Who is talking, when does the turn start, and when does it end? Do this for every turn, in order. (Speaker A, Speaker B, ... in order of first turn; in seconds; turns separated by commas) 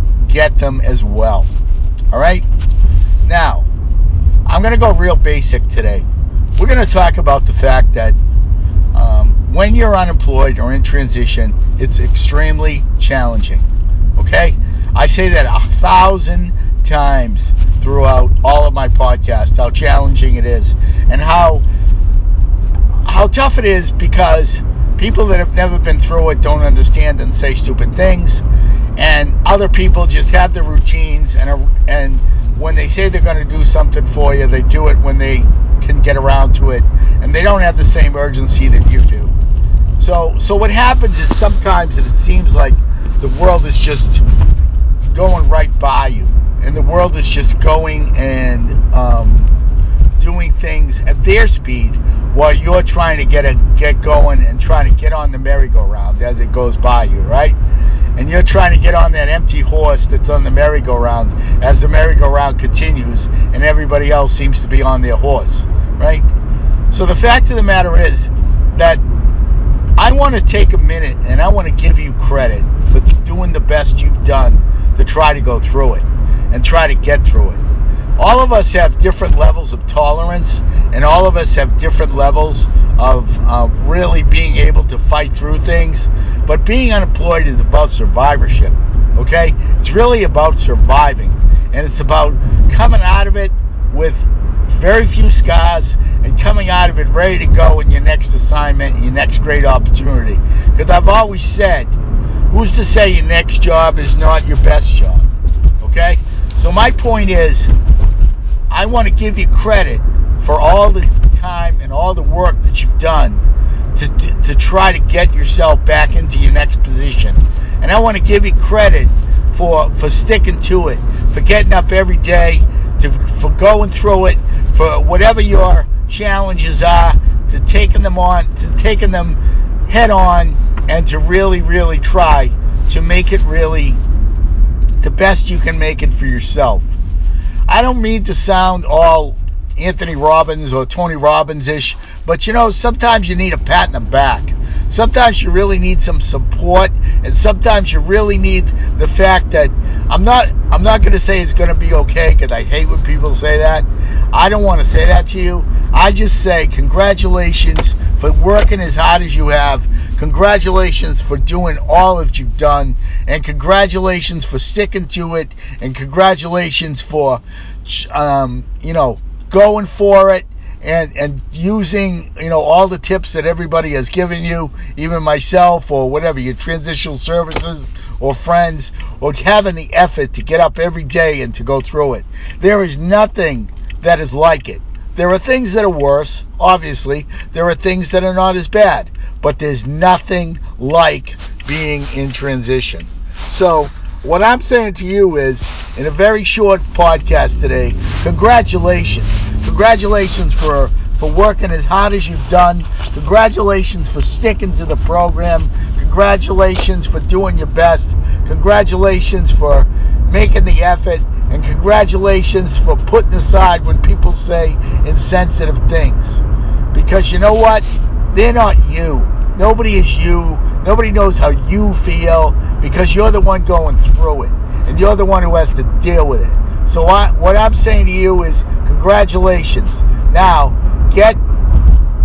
Speaker A: 0.2-1.5, Speaker A: 2.1-2.5, Speaker A: 3.2-3.7, Speaker A: 4.5-8.2, Speaker A: 8.9-21.6, Speaker A: 23.0-28.4, Speaker A: 28.9-39.3, Speaker A: 40.0-44.2, Speaker A: 45.1-49.5, Speaker A: 50.2-57.6, Speaker A: 58.1-66.3, Speaker A: 66.9-69.0, Speaker A: 70.0-77.6, Speaker A: 78.2-101.9, Speaker A: 102.5-105.3, Speaker A: 105.8-107.7, Speaker A: 108.7-113.4, Speaker A: 113.9-134.0, Speaker A: 135.0-136.9, Speaker A: 137.7-216.4, Speaker A: 216.9-231.4